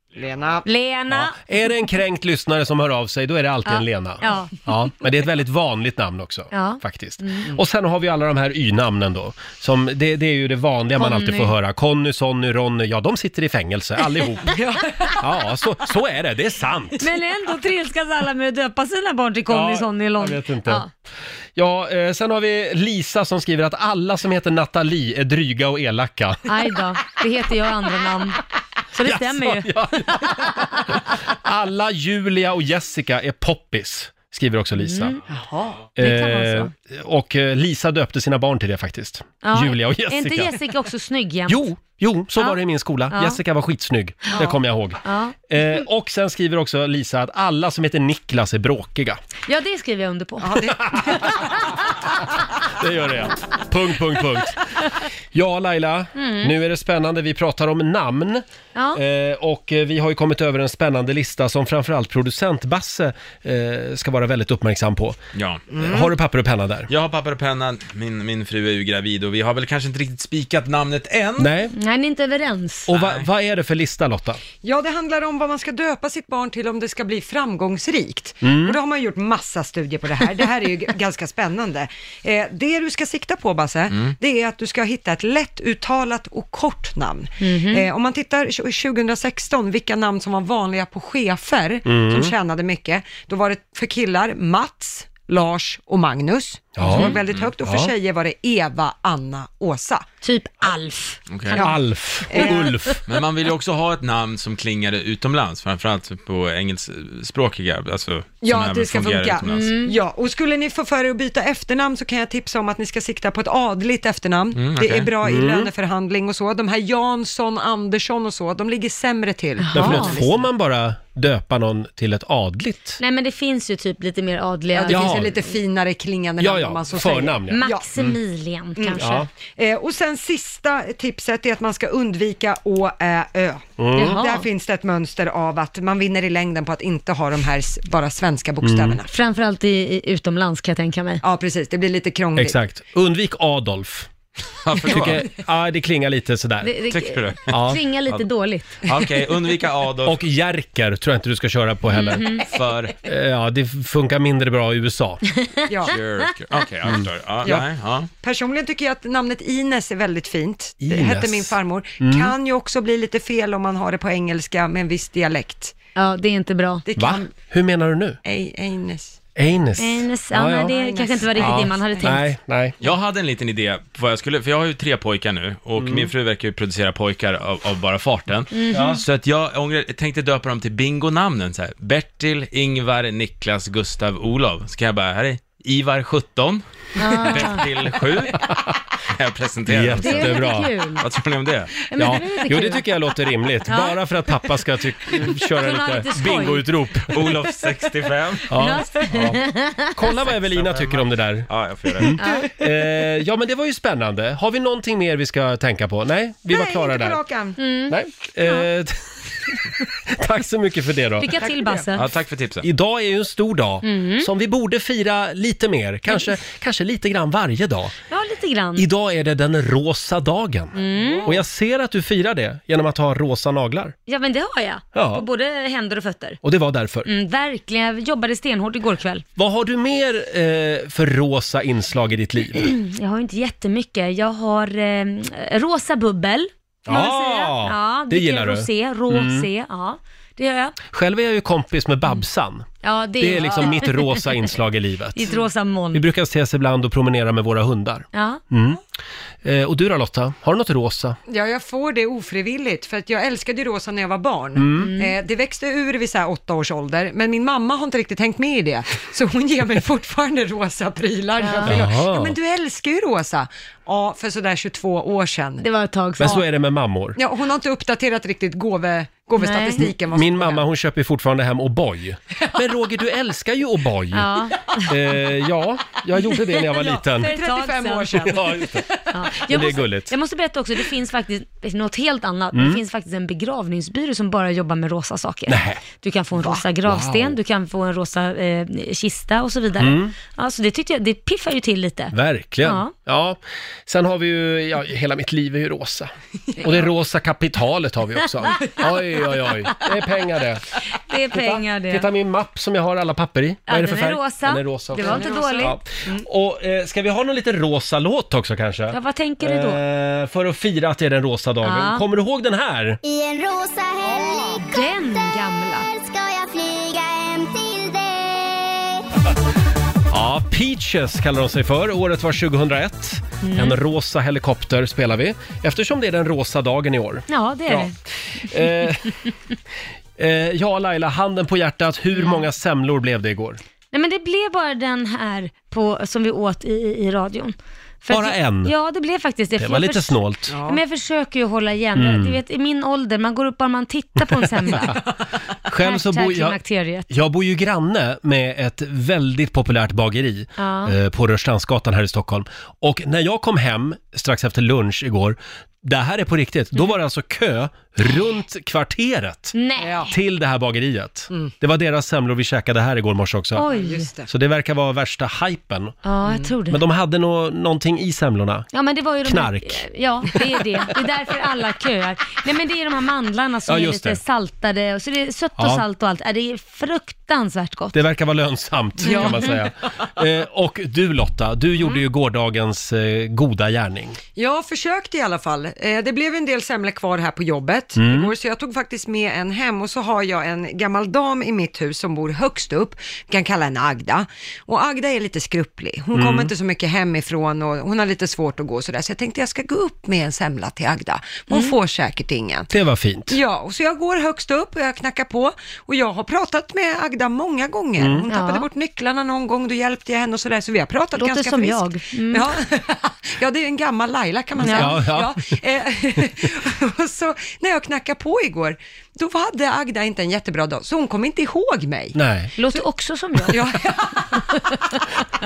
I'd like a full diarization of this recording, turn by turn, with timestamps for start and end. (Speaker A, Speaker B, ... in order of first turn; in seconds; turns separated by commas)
Speaker A: 0.2-0.6, Speaker B: 0.6-1.4, Speaker C: 1.1-14.6, Speaker B: 3.6-4.5, Speaker B: 6.5-7.5, Speaker B: 11.0-11.5, Speaker A: 14.5-15.2, Speaker C: 15.2-17.1, Speaker B: 17.0-20.9, Speaker C: 19.5-20.8, Speaker C: 21.6-26.5, Speaker B: 26.4-28.4, Speaker B: 28.9-30.9, Speaker C: 29.0-35.2, Speaker B: 34.8-35.2, Speaker A: 35.3-35.8, Speaker C: 36.0-40.6, Speaker B: 36.0-36.7, Speaker B: 39.4-41.6, Speaker C: 41.5-49.2, Speaker B: 43.1-43.4, Speaker B: 45.0-45.4, Speaker B: 49.5-51.4, Speaker A: 50.4-51.6, Speaker C: 50.9-51.3, Speaker C: 52.7-54.6, Speaker C: 55.3-58.4, Speaker B: 56.1-56.5, Speaker B: 58.7-59.0, Speaker C: 58.9-65.2, Speaker D: 65.3-65.8, Speaker C: 65.8-66.9, Speaker D: 66.9-71.5, Speaker C: 71.4-71.7, Speaker B: 71.7-72.9, Speaker C: 72.9-74.4, Speaker D: 72.9-73.3, Speaker A: 74.6-100.0, Speaker C: 78.4-78.8, Speaker B: 87.4-87.9, Speaker C: 91.8-92.3, Speaker C: 96.8-97.9, Speaker B: 96.9-97.2, Speaker B: 100.2-101.7, Speaker D: 101.3-101.6, Speaker C: 101.5-103.0, Speaker A: 102.3-102.7, Speaker B: 102.3-103.0, Speaker D: 103.0-109.8, Speaker A: 108.4-120.5, Speaker B: 109.5-110.0, Speaker D: 114.5-115.1, Speaker C: 115.2-115.7, Speaker B: 119.6-120.2, Speaker C: 119.7-123.0, Speaker B: 123.0-125.3, Speaker A: 124.7-127.9, Speaker C: 124.9-125.4, Speaker C: 126.4-128.1, Speaker B: 127.5-129.2, Speaker A: 128.8-139.1, Speaker C: 129.0-129.3, Speaker C: 133.8-134.2, Speaker B: 133.9-134.5, Speaker C: 138.6-139.0, Speaker B: 139.1-141.2, Speaker A: 141.2-142.6, Speaker C: 142.3-144.1, Speaker D: 144.6-145.3, Speaker C: 144.8-146.7, Speaker B: 146.6-148.8, Speaker D: 146.9-147.5, Speaker C: 147.5-147.8, Speaker D: 148.8-150.2, Speaker C: 150.0-152.4, Speaker B: 151.9-152.4, Speaker D: 152.5-152.9, Speaker C: 153.0-155.2, Speaker A: 155.7-155.9, Speaker D: 155.8-158.1, Speaker A: 158.2-165.7, Speaker C: 160.8-162.3, Speaker B: 165.9-166.8, Speaker A: 166.9-167.3, Speaker C: 166.9-168.2, Speaker A: 168.2-169.2, Speaker C: 169.3-170.7, Speaker B: 169.8-172.3, Speaker A: 170.7-172.2, Speaker C: 171.4-172.8, Speaker D: 172.8-188.4, Speaker C: 175.8-176.1, Speaker B: 178.5-179.0, Speaker C: 178.7-179.0, Speaker B: 187.0-187.6, Speaker C: 188.4-188.7, Speaker D: 189.2-191.7, Speaker C: 189.7-190.7, Speaker B: 190.0-191.0, Speaker B: 191.9-192.9, Speaker C: 192.0-197.5, Speaker B: 193.7-194.0, Speaker B: 195.2-196.7, Speaker D: 197.1-198.5, Speaker C: 198.4-199.4, Speaker B: 198.5-200.1, Speaker C: 199.9-207.2, Speaker D: 200.3-202.2, Speaker B: 202.2-202.5, Speaker A: 202.2-202.5, Speaker A: 206.5-207.6, Speaker B: 207.6-208.6, Speaker C: 207.9-209.0, Speaker C: 210.1-211.3, Speaker B: 211.2-212.0, Speaker A: 211.4-211.9, Speaker D: 211.9-212.6, Speaker C: 212.6-217.9, Speaker B: 213.8-214.3, Speaker B: 218.1-218.8, Speaker C: 218.8-223.9, Speaker B: 220.7-221.3, Speaker A: 220.9-221.3, Speaker B: 224.1-226.4, Speaker C: 224.9-225.2, Speaker C: 226.4-227.1, Speaker B: 227.0-229.2, Speaker C: 229.4-232.7, Speaker B: 232.6-240.8, Speaker C: 236.9-239.5, Speaker C: 240.9-245.3, Speaker B: 242.8-244.5, Speaker B: 245.1-246.0, Speaker C: 245.9-248.8, Speaker B: 248.1-248.4, Speaker C: 249.4-251.2, Speaker A: 251.3-265.6, Speaker C: 254.6-254.9, Speaker B: 254.8-255.2, Speaker B: 261.4-261.8, Speaker C: 261.6-262.3, Speaker B: 265.6-266.4, Speaker C: 266.2-267.2, Speaker A: 267.2-270.6, Speaker B: 269.4-269.9, Speaker C: 270.1-274.3, Speaker B: 274.1-274.9, Speaker C: 274.9-277.3, Speaker A: 276.7-279.1, Speaker B: 277.2-278.4, Speaker C: 278.2-278.9, Speaker B: 279.1-292.9, Speaker C: 279.4-280.1, Speaker C: 282.5-282.8, Speaker C: 285.5-285.8, Speaker A: 286.4-286.6, Speaker C: 286.8-287.4, Speaker C: 289.8-290.1, Speaker C: 292.1-300.6, Speaker B: 301.1-302.1, Speaker C: 301.3-313.0, Speaker B: 303.7-305.7, Speaker A: 304.9-306.2, Speaker B: 308.9-309.8, Speaker B: 311.6-312.0, Speaker E: 313.0-314.5, Speaker A: 314.1-314.6, Speaker B: 314.6-315.9, Speaker E: 315.9-319.0, Speaker C: 320.1-327.9, Speaker B: 323.4-323.8, Speaker B: 327.3-327.9, Speaker C: 328.4-329.2, Speaker C: 330.2-333.6, Speaker B: 332.1-332.4, Speaker B: 333.9-345.0, Speaker C: 338.1-338.7, Speaker C: 339.6-340.5, Speaker A: 340.5-340.8, Speaker C: 341.9-342.4, Speaker C: 344.4-345.0, Speaker C: 345.6-346.6, Speaker B: 345.8-347.1, Speaker C: 347.1-359.6, Speaker B: 350.6-350.9, Speaker B: 359.5-360.1, Speaker A: 359.8-360.1, Speaker C: 360.1-363.6, Speaker B: 363.5-364.1, Speaker A: 363.6-364.3, Speaker C: 364.3-366.0, Speaker B: 366.0-366.8, Speaker A: 366.2-366.5, Speaker C: 366.7-368.7, Speaker B: 368.7-377.9, Speaker C: 369.2-370.6, Speaker C: 373.7-374.2, Speaker C: 375.6-375.8, Speaker C: 377.9-384.2, Speaker A: 379.0-379.6, Speaker B: 379.0-379.5, Speaker A: 384.4-402.7, Speaker C: 387.9-388.3, Speaker C: 396.1-396.5, Speaker B: 401.5-401.8, Speaker C: 402.7-403.4, Speaker A: 403.3-422.2, Speaker C: 408.0-408.2, Speaker B: 408.3-408.7, Speaker B: 411.1-412.5, Speaker B: 414.6-415.0, Speaker C: 414.6-415.6, Speaker C: 422.1-422.5, Speaker B: 422.6-423.6, Speaker A: 423.5-425.2